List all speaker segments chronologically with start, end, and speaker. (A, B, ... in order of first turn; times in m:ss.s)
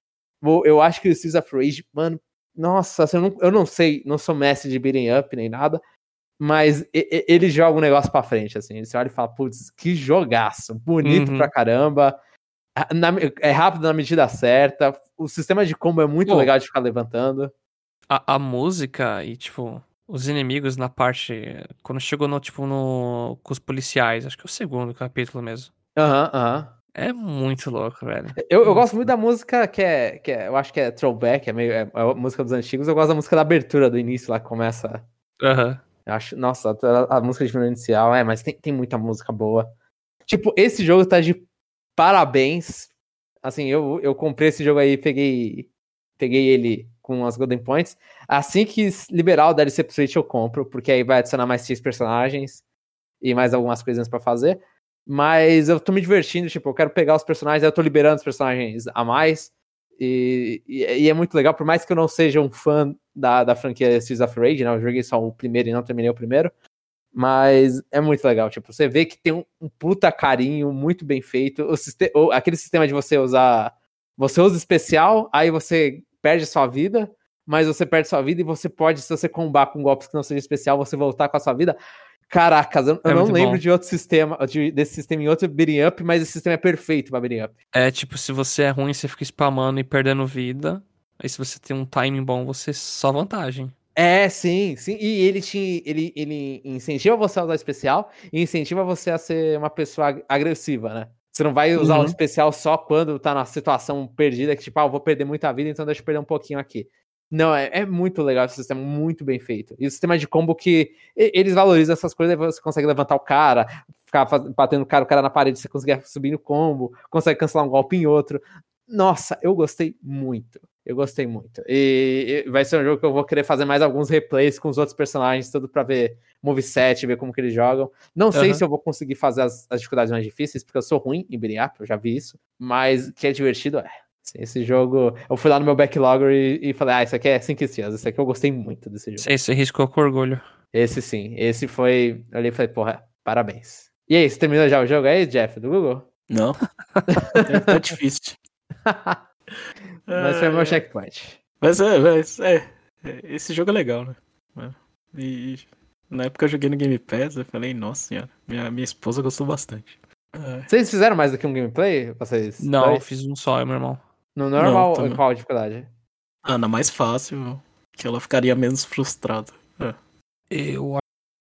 0:00.4-0:05.8 A
0:06.4-0:12.2 A
0:11.0-0:11.5 B
0:12.8-0:17.5 A
0:16.3-0:16.5 B
0:18.1-0:25.7 B
0:26.0-0:26.7 A
0:27.0-0:29.0 B
0:28.4-0:35.0 A
0:35.4-0:35.8 B
0:36.1-0:39.7 A
0:40.3-0:41.4 A
0:42.0-0:42.9 A
0:43.4-0:52.6 A
0:53.2-1:06.5 A
1:07.1-1:21.8 A
1:22.3-1:27.6 A
1:23.1-1:23.6 B
1:27.7-1:33.7 B
1:34.0-2:19.3 A
1:41.8-1:42.2 B
2:08.3-2:08.6 C
2:19.2-2:20.4 B
2:20.7-2:26.1 A
2:26.3-2:26.6 C
2:27.2-2:27.8 A
2:27.4-2:28.4 C
2:28.9-2:29.2 A
2:30.1-2:30.8 C
2:30.1-2:31.4 A
2:31.6-2:40.7 C
2:40.7-2:43.0 A
2:42.6-2:44.0 B
2:44.4-2:45.9 A
2:44.6-2:45.2 C
2:46.4-2:50.0 C
2:50.5-2:51.0 B